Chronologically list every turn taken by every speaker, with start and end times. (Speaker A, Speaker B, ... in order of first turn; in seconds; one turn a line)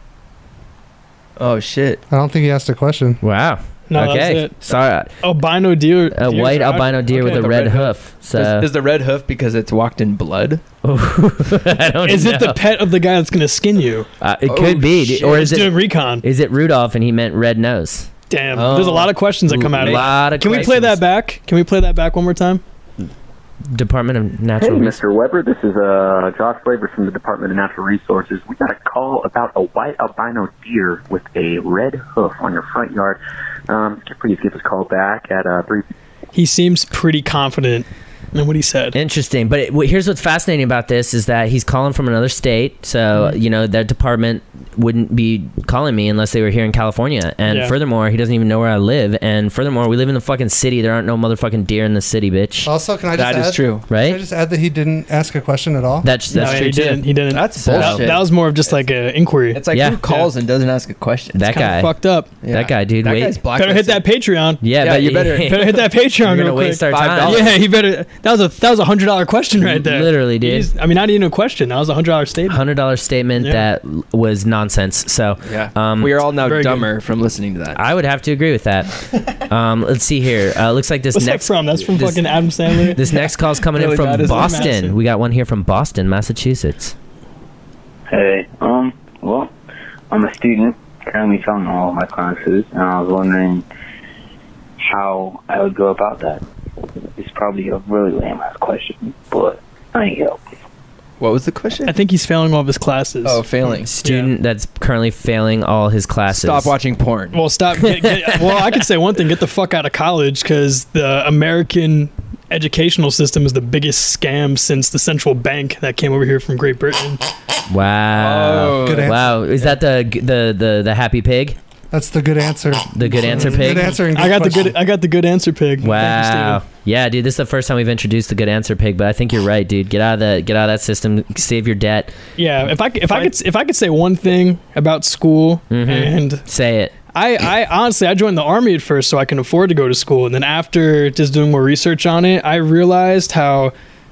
Speaker A: 1.4-2.0
Speaker B: 2.1-3.2
Speaker C: 3.2-5.1
Speaker D: 3.9-4.6
Speaker D: 5.2-7.5
Speaker C: 6.1-8.7
Speaker A: 7.1-10.6
Speaker C: 10.8-12.6
Speaker D: 12.1-14.1
Speaker C: 14.2-18.1
Speaker A: 14.5-15.5
Speaker D: 15.2-16.2
Speaker D: 18.3-22.6
Speaker A: 18.5-19.2
Speaker C: 19.5-21.0
Speaker A: 19.8-20.7
Speaker C: 23.7-25.0
Speaker E: 24.6-35.9
Speaker D: 36.3-39.0
Speaker C: 38.9-52.7
Speaker D: 47.5-47.8
Speaker B: 52.6-56.1
Speaker A: 53.1-53.9
Speaker C: 53.9-54.2
Speaker C: 56.0-57.1
Speaker A: 56.3-56.7
Speaker D: 56.3-60.3
Speaker A: 57.3-58.8
Speaker C: 57.6-58.1
Speaker A: 59.5-61.5
Speaker C: 59.7-60.0
Speaker C: 61.4-61.9
Speaker D: 61.5-62.3
Speaker A: 62.4-64.1
Speaker C: 62.5-63.4
Speaker D: 63.5-64.6
Speaker C: 64.6-67.5
Speaker A: 64.8-65.6
Speaker D: 65.4-72.6
Speaker A: 66.9-67.6
Speaker C: 69.7-70.7
Speaker C: 72.5-76.2
Speaker D: 73.4-73.6
Speaker A: 75.5-77.8
Speaker D: 76.4-76.9
Speaker C: 77.8-86.9
Speaker D: 81.1-83.0
Speaker A: 83.2-84.8
Speaker D: 84.2-85.0
Speaker F: 88.1-89.5
Speaker F: 90.1-93.7
Speaker F: 94.8-96.4
Speaker F: 97.2-100.4
Speaker A: 101.2-101.9
Speaker D: 101.9-103.4
Speaker A: 103.2-104.0
Speaker C: 103.9-106.7
Speaker D: 104.0-104.3
Speaker A: 106.3-107.4
Speaker D: 107.3-117.2
Speaker C: 108.0-108.8
Speaker C: 117.7-121.6
Speaker A: 118.2-119.7
Speaker B: 118.8-119.2
Speaker B: 121.9-124.7
Speaker C: 122.9-124.0
Speaker D: 123.3-126.6
Speaker C: 125.8-132.1
Speaker D: 132.4-136.4
Speaker C: 135.7-136.9
Speaker D: 137.1-143.7